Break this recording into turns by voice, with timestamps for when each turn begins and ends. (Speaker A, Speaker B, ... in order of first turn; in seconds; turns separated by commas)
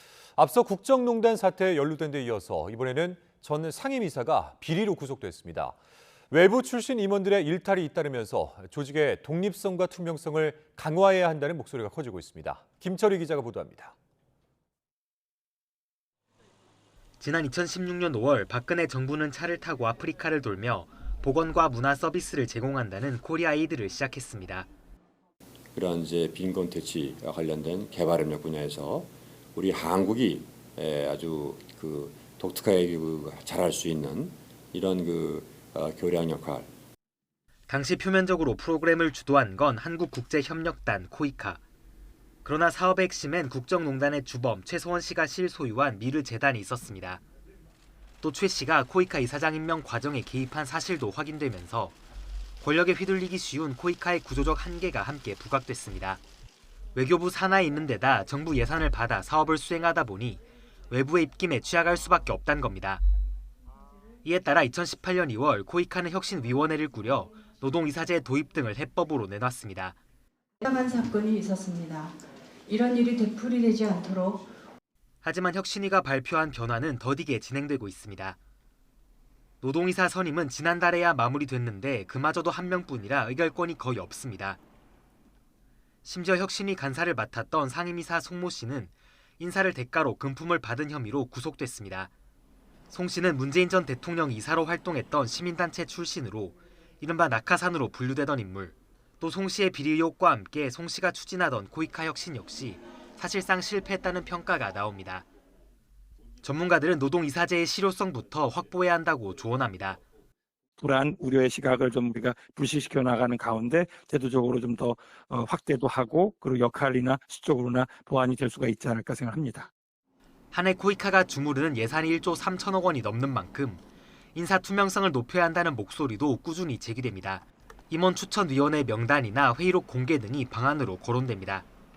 Speaker A: 0.4-5.8, Speaker A: 6.3-13.9, Speaker B: 17.2-24.7, Speaker C: 25.7-36.7, Speaker B: 37.7-41.6, Speaker B: 42.5-47.2, Speaker B: 48.2-52.0, Speaker B: 52.6-56.2, Speaker B: 57.0-63.0, Speaker B: 64.2-70.0, Speaker D: 70.6-74.5, Speaker B: 75.2-78.4, Speaker B: 79.6-84.6, Speaker B: 86.0-92.1, Speaker B: 92.9-105.3, Speaker B: 106.4-110.0, Speaker E: 110.8-119.7, Speaker B: 120.5-123.8, Speaker B: 124.3-131.7